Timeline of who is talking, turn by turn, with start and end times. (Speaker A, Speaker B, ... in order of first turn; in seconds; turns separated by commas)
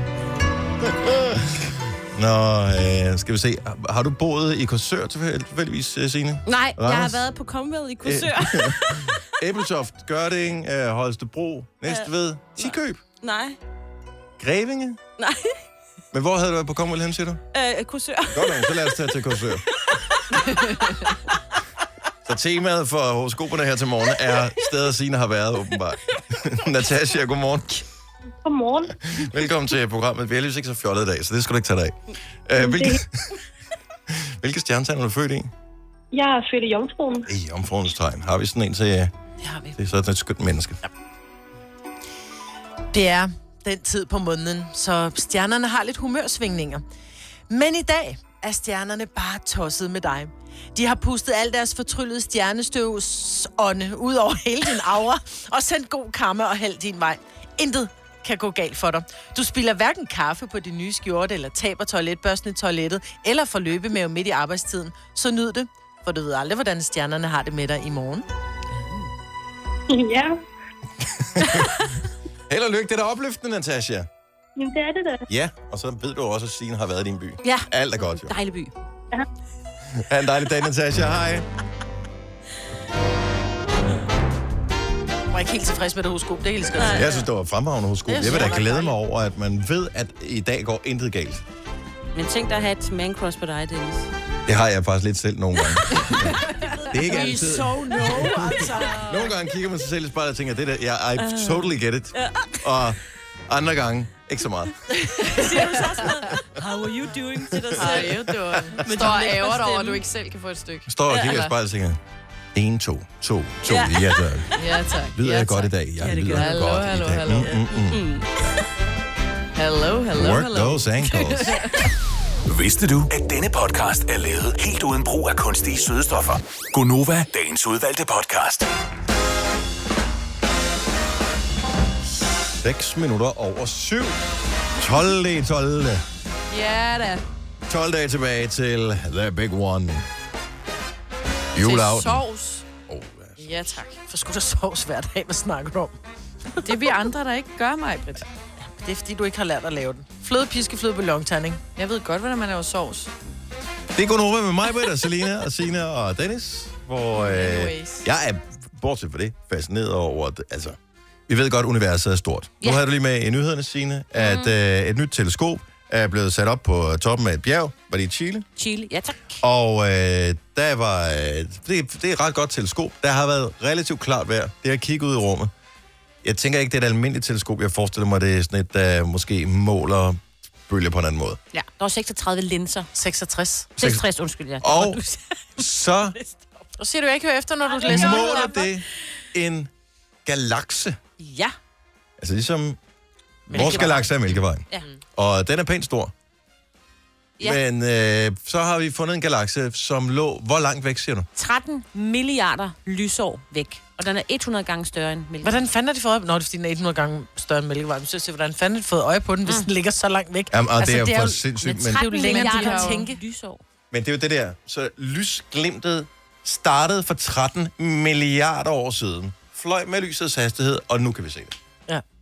Speaker A: 0.8-7.2, Speaker B: 6.5-9.2, Speaker A: 8.0-13.0, Speaker B: 11.8-13.6, Speaker A: 14.4-15.0, Speaker B: 15.2-15.6, Speaker A: 16.1-17.4, Speaker B: 17.5-18.9, Speaker A: 18.3-19.6, Speaker A: 22.2-27.8, Speaker C: 28.4-29.0, Speaker A: 29.1-33.3, Speaker C: 32.6-33.0, Speaker A: 34.1-35.5, Speaker C: 36.1-37.3, Speaker A: 37.2-39.1, Speaker D: 39.4-39.8, Speaker A: 39.8-40.8, Speaker D: 42.9-46.8, Speaker D: 47.5-68.2, Speaker C: 69.9-70.4, Speaker A: 71.3-71.6, Speaker A: 72.5-74.1, Speaker C: 74.5-75.2, Speaker A: 75.3-78.3, Speaker B: 77.4-78.7, Speaker A: 79.9-81.5, Speaker D: 85.3-87.1, Speaker B: 86.8-87.2, Speaker A: 86.9-91.4, Speaker D: 88.1-88.9, Speaker B: 92.1-94.1, Speaker A: 94.5-96.4, Speaker B: 96.6-97.4, Speaker A: 96.9-98.5, Speaker D: 97.1-99.1, Speaker B: 98.6-99.3, Speaker A: 99.0-104.7, Speaker B: 101.2-102.6, Speaker B: 105.2-108.3, Speaker A: 107.5-109.2, Speaker E: 107.8-111.5, Speaker B: 108.8-110.0, Speaker A: 110.9-112.0, Speaker A: 112.5-114.5, Speaker B: 113.6-114.4, Speaker E: 114.5-115.7, Speaker A: 115.2-118.0, Speaker B: 116.0-116.7, Speaker E: 116.2-117.6, Speaker B: 117.9-118.3, Speaker E: 119.5-121.8, Speaker A: 120.1-121.7, Speaker F: 122.5-128.7, Speaker A: 132.6-134.2, Speaker A: 134.8-136.0, Speaker E: 136.5-137.2, Speaker A: 137.7-140.1, Speaker A: 141.5-142.2, Speaker E: 141.6-142.7, Speaker A: 142.9-143.8, Speaker E: 143.4-144.0, Speaker D: 144.0-145.9, Speaker E: 146.6-148.2, Speaker D: 148.6-151.6, Speaker E: 151.8-153.1, Speaker A: 153.9-160.8, Speaker E: 157.1-158.1, Speaker A: 161.3-168.5, Speaker B: 164.2-164.5, Speaker B: 168.6-169.4, Speaker A: 169.4-175.5, Speaker A: 176.2-181.4, Speaker B: 181.5-182.9, Speaker D: 182.9-183.7, Speaker A: 183.8-184.0, Speaker B: 183.8-186.3, Speaker A: 184.6-185.0, Speaker A: 185.6-186.2, Speaker D: 186.8-188.5, Speaker B: 187.7-188.5, Speaker A: 187.8-189.7, Speaker A: 190.2-191.0, Speaker B: 191.2-191.5, Speaker A: 192.2-192.8, Speaker D: 193.5-194.1, Speaker A: 193.5-196.1, Speaker B: 193.5-194.1, Speaker A: 197.4-201.3, Speaker B: 201.4-205.6, Speaker D: 205.4-213.2, Speaker A: 210.5-212.1, Speaker B: 211.6-213.6, Speaker E: 212.2-213.0, Speaker A: 213.9-221.6